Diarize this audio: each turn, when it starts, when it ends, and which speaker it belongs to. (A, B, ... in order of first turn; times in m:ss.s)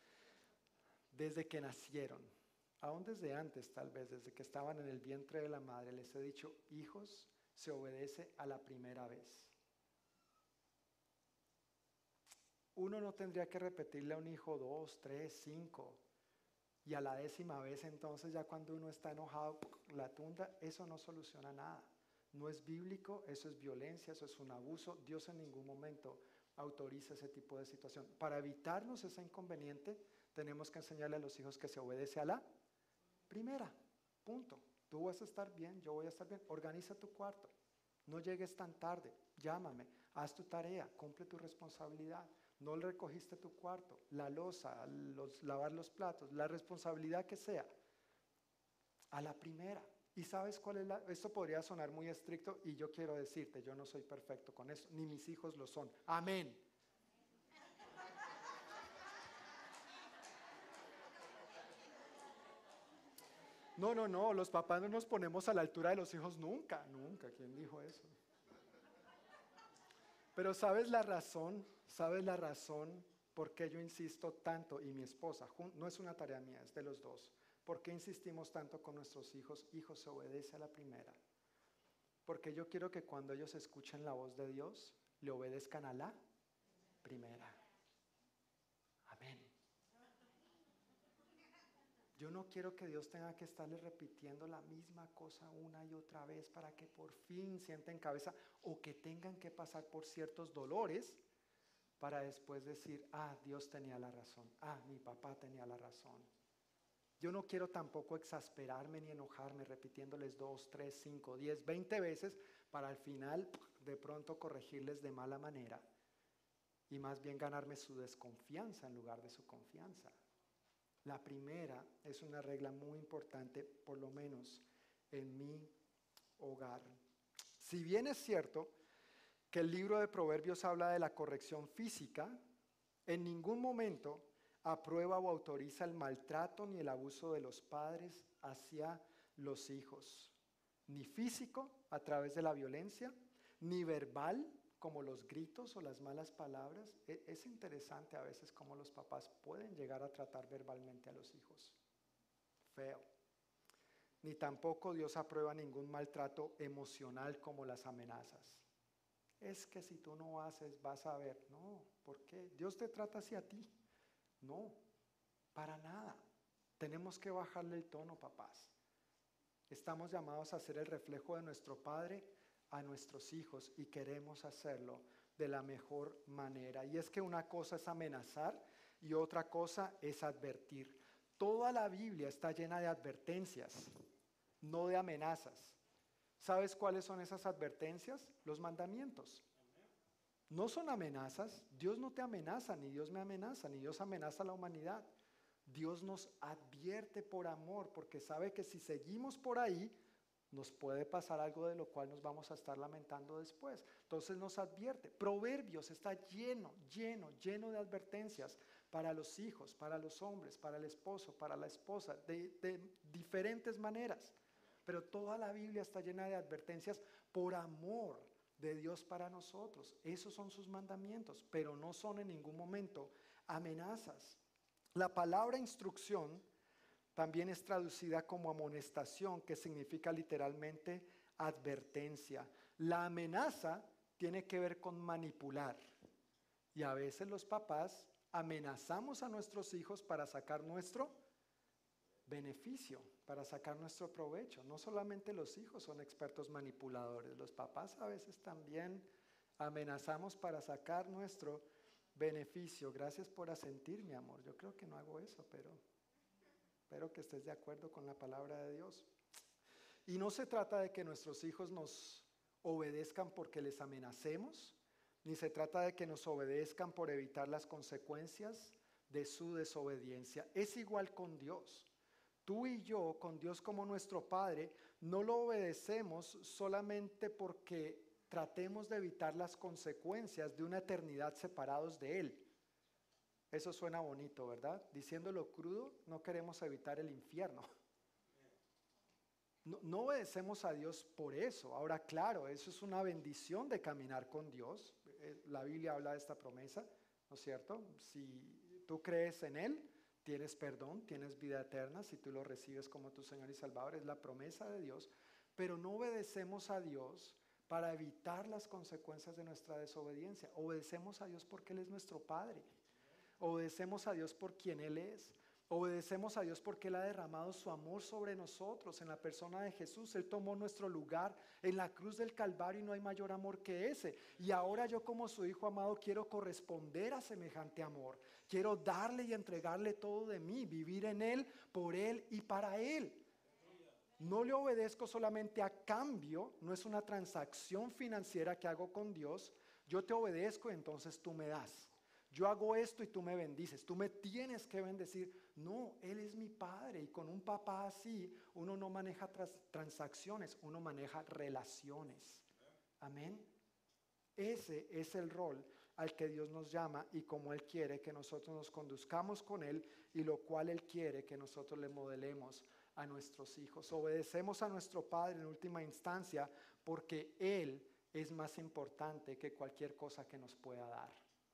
0:01.1-0:09.5 A
0:12.8-0:16.0 A
0:16.8-0:32.4 A
0:33.3-0:37.5 A
0:38.1-0:47.7 A
0:49.1-0:56.6 A
1:03.8-1:08.1 A
1:10.3-1:21.2 A
1:22.2-1:26.2 A
1:27.0-1:27.6 A
1:29.0-1:29.5 A
1:32.2-1:41.2 A
1:42.0-1:46.3 A
1:47.2-1:55.9 A
1:56.9-2:00.1 A
2:01.0-2:05.7 A
2:06.4-2:07.0 A
2:07.6-2:08.7 A
2:09.5-2:12.4 A
2:13.0-2:20.4 A
2:20.9-2:31.8 A
2:32.7-2:33.0 A
2:34.2-2:38.6 A
2:39.4-2:43.7 A
2:44.4-2:44.8 A
2:45.5-2:46.2 A
2:46.8-2:48.7 A
2:49.7-3:03.9 A
3:04.6-3:05.8 A
3:06.4-3:09.4 A
3:10.5-3:15.1 A
3:15.6-3:20.0 A
3:20.5-3:34.3 A
3:34.8-3:44.4 A
3:44.9-3:46.4 A
3:47.1-3:55.8 A
3:56.7-4:01.2 A
4:02.3-4:15.8 A
4:16.9-4:19.1 A
4:20.0-4:31.9 A
4:32.4-4:42.5 A
4:43.5-4:47.7 A
4:49.6-5:12.7 A
5:13.4-5:33.2 A
5:34.2-5:52.4 A
5:53.0-5:53.5 A
5:54.4-6:11.2 A